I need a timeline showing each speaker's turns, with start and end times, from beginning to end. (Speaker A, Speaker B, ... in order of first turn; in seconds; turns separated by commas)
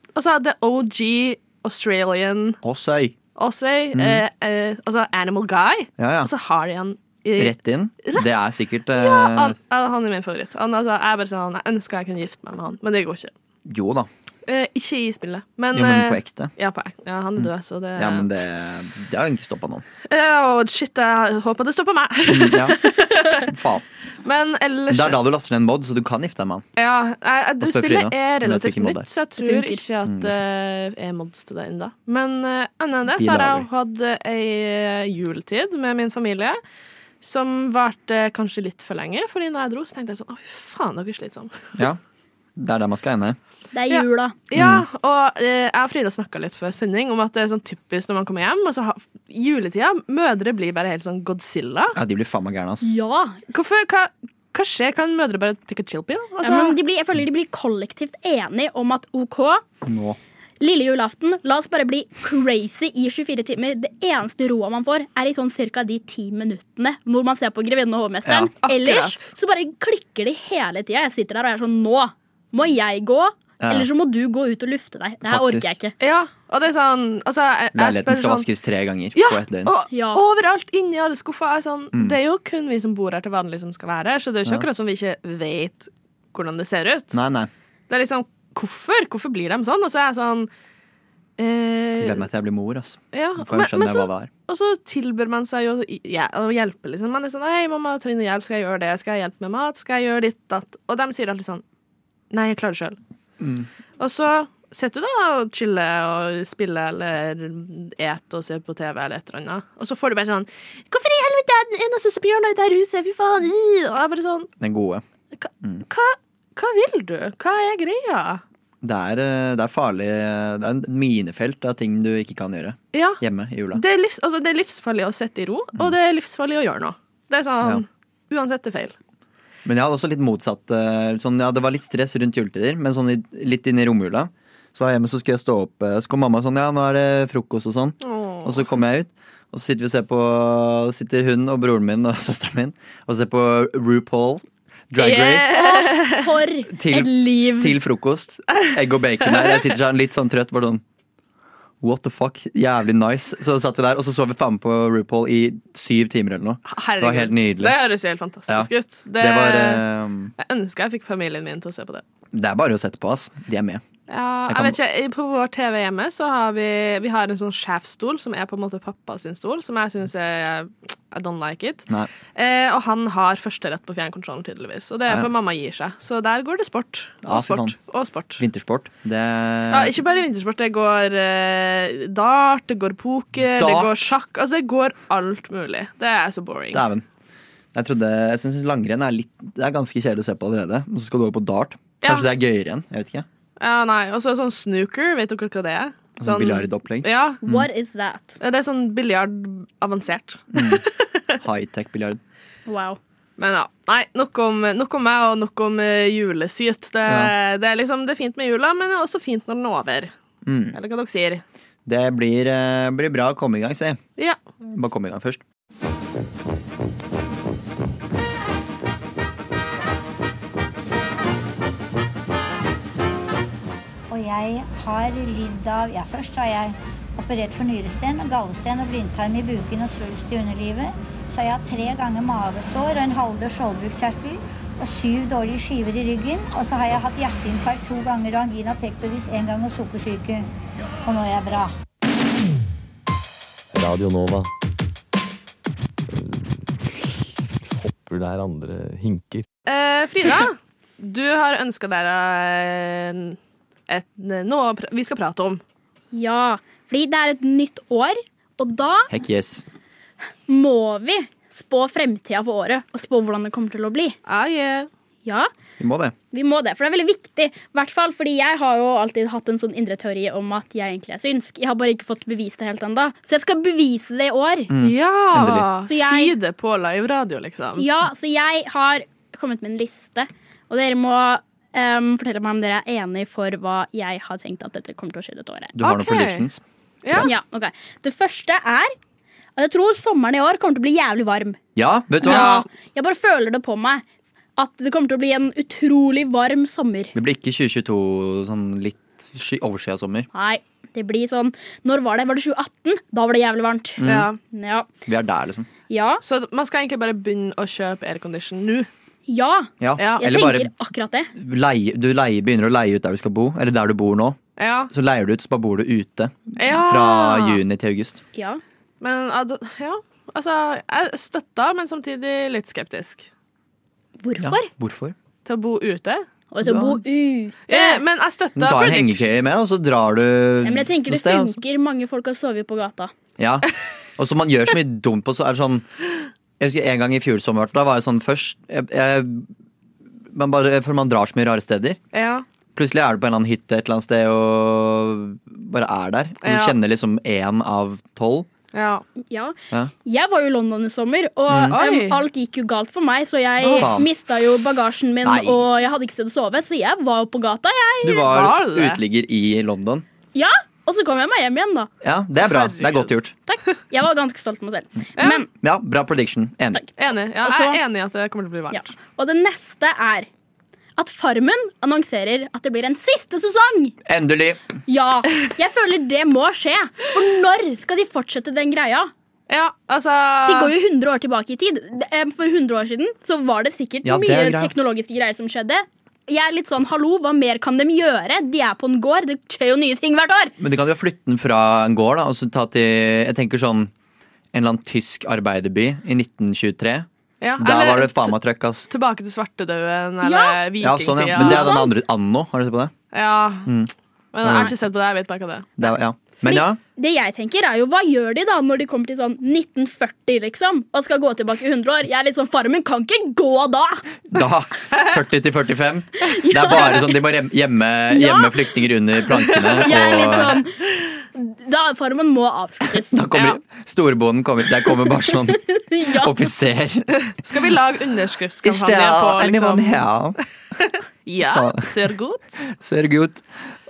Speaker A: 0.2-2.6, Speaker B: 2.6-3.2, Speaker A: 3.4-8.2, Speaker B: 3.9-4.2, Speaker B: 6.0-6.3, Speaker B: 7.4-9.6, Speaker A: 8.9-13.3, Speaker B: 13.7-14.1, Speaker A: 14.5-18.3, Speaker B: 15.7-16.5, Speaker B: 17.4-19.8, Speaker A: 20.1-23.5, Speaker B: 22.2-23.9, Speaker A: 24.2-25.2, Speaker B: 24.9-26.6, Speaker A: 26.8-36.6, Speaker B: 27.6-29.1, Speaker C: 29.4-29.8, Speaker B: 30.1-30.3, Speaker B: 33.1-33.7, Speaker A: 37.2-41.6, Speaker B: 42.6-43.4, Speaker C: 43.7-44.4, Speaker A: 43.9-52.0, Speaker B: 44.5-44.9, Speaker B: 52.0-52.8, Speaker C: 52.8-53.4, Speaker A: 53.5-56.8, Speaker C: 56.4-59.6, Speaker B: 59.8-60.2, Speaker C: 60.6-75.9, Speaker B: 68.2-68.5, Speaker A: 68.6-69.3, Speaker B: 73.6-73.9, Speaker B: 75.2-75.7, Speaker A: 76.0-78.5, Speaker B: 77.7-79.7, Speaker A: 79.2-87.2, Speaker C: 79.9-80.2, Speaker B: 87.1-87.5, Speaker A: 87.9-90.5, Speaker A: 91.4-92.2, Speaker B: 92.0-94.3, Speaker A: 93.1-101.6, Speaker A: 102.3-103.0, Speaker B: 103.4-103.7, Speaker A: 104.0-114.5, Speaker B: 114.6-115.0, Speaker A: 115.4-118.4, Speaker B: 118.8-123.8, Speaker A: 122.9-123.2, Speaker A: 123.7-128.9, Speaker B: 129.7-145.7, Speaker A: 138.0-138.6, Speaker A: 145.0-146.3, Speaker C: 145.5-147.8, Speaker B: 146.7-150.8, Speaker B: 151.8-157.8, Speaker A: 156.7-159.8, Speaker B: 158.5-160.3, Speaker A: 160.4-162.0, Speaker B: 162.3-163.8, Speaker A: 164.1-178.4, Speaker B: 164.5-164.8, Speaker B: 177.2-177.8, Speaker B: 178.4-180.0, Speaker A: 179.7-186.8, Speaker B: 183.5-184.1, Speaker B: 186.7-187.0, Speaker B: 187.7-193.3, Speaker A: 192.0-192.3, Speaker A: 193.6-197.4, Speaker B: 196.2-197.7, Speaker C: 197.4-198.4, Speaker A: 198.4-201.4, Speaker B: 200.5-200.8, Speaker B: 201.4-202.2, Speaker C: 202.7-203.0, Speaker A: 203.4-210.1, Speaker B: 207.1-207.3, Speaker B: 210.4-210.8, Speaker A: 210.7-211.4, Speaker B: 211.9-214.0, Speaker B: 214.6-215.4, Speaker D: 224.1-240.5, Speaker D: 241.0-241.8, Speaker E: 243.7-244.5, Speaker E: 246.1-249.5, Speaker A: 249.7-255.6, Speaker C: 256.1-259.1, Speaker B: 259.1-259.6, Speaker C: 260.5-264.2, Speaker A: 264.3-264.9, Speaker C: 265.2-265.5, Speaker B: 265.8-266.1, Speaker C: 266.3-274.7, Speaker B: 274.7-275.7, Speaker A: 274.8-277.9, Speaker C: 275.9-276.3, Speaker C: 277.8-285.7, Speaker B: 285.8-287.3, Speaker A: 285.8-286.5, Speaker C: 287.2-288.9, Speaker C: 289.6-291.6, Speaker B: 291.8-292.5, Speaker C: 292.2-294.0, Speaker A: 292.2-292.6, Speaker C: 294.6-297.1, Speaker B: 297.1-300.3, Speaker C: 300.3-304.9, Speaker B: 304.0-304.3, Speaker A: 304.1-304.4, Speaker B: 305.1-305.7, Speaker C: 305.9-306.2, Speaker A: 306.2-308.9, Speaker C: 309.3-311.3, Speaker B: 309.8-310.7, Speaker A: 310.0-310.3, Speaker B: 311.4-314.4, Speaker A: 314.6-314.9, Speaker B: 314.9-318.2, Speaker A: 316.6-317.6, Speaker C: 318.4-318.6, Speaker A: 319.0-323.3, Speaker C: 324.2-324.7, Speaker B: 324.4-325.2, Speaker A: 325.4-326.2, Speaker C: 326.5-328.0, Speaker B: 326.6-327.0, Speaker A: 327.7-329.3, Speaker B: 328.6-331.6, Speaker C: 330.6-333.1, Speaker B: 333.4-333.7, Speaker B: 334.2-335.9, Speaker B: 336.6-339.5, Speaker B: 340.3-342.0, Speaker A: 342.1-342.4, Speaker B: 342.8-348.5, Speaker A: 346.4-346.8, Speaker A: 348.7-349.0, Speaker C: 349.3-358.3, Speaker B: 351.5-351.8, Speaker A: 351.7-352.2, Speaker A: 353.6-353.9, Speaker B: 353.6-354.1, Speaker B: 355.2-355.7, Speaker B: 358.0-360.1, Speaker A: 358.2-359.0, Speaker C: 360.4-361.9, Speaker B: 362.0-363.3, Speaker A: 362.4-363.1, Speaker C: 363.5-365.5, Speaker B: 365.6-366.9, Speaker A: 367.0-368.9, Speaker C: 367.4-367.8, Speaker C: 368.7-370.3, Speaker C: 371.0-373.9, Speaker B: 374.1-374.6, Speaker C: 374.9-379.1, Speaker A: 379.5-380.7, Speaker C: 380.5-390.5, Speaker B: 384.0-384.7, Speaker B: 390.6-393.9, Speaker B: 394.5-397.1, Speaker A: 397.4-398.4, Speaker B: 397.6-398.9, Speaker A: 398.9-401.8, Speaker C: 400.2-400.6, Speaker B: 400.8-402.9, Speaker C: 401.4-401.9, Speaker A: 403.1-403.7, Speaker B: 403.6-404.7, Speaker A: 404.3-405.7, Speaker B: 405.8-406.8, Speaker C: 406.4-414.1, Speaker B: 414.3-420.6, Speaker C: 416.3-417.0, Speaker C: 418.1-418.6, Speaker A: 419.6-420.5, Speaker C: 419.8-420.7, Speaker C: 421.4-423.2, Speaker B: 422.9-427.2, Speaker C: 425.5-426.3, Speaker A: 427.2-430.1, Speaker B: 428.6-430.4, Speaker A: 431.2-432.6, Speaker B: 431.4-431.9, Speaker B: 432.7-433.5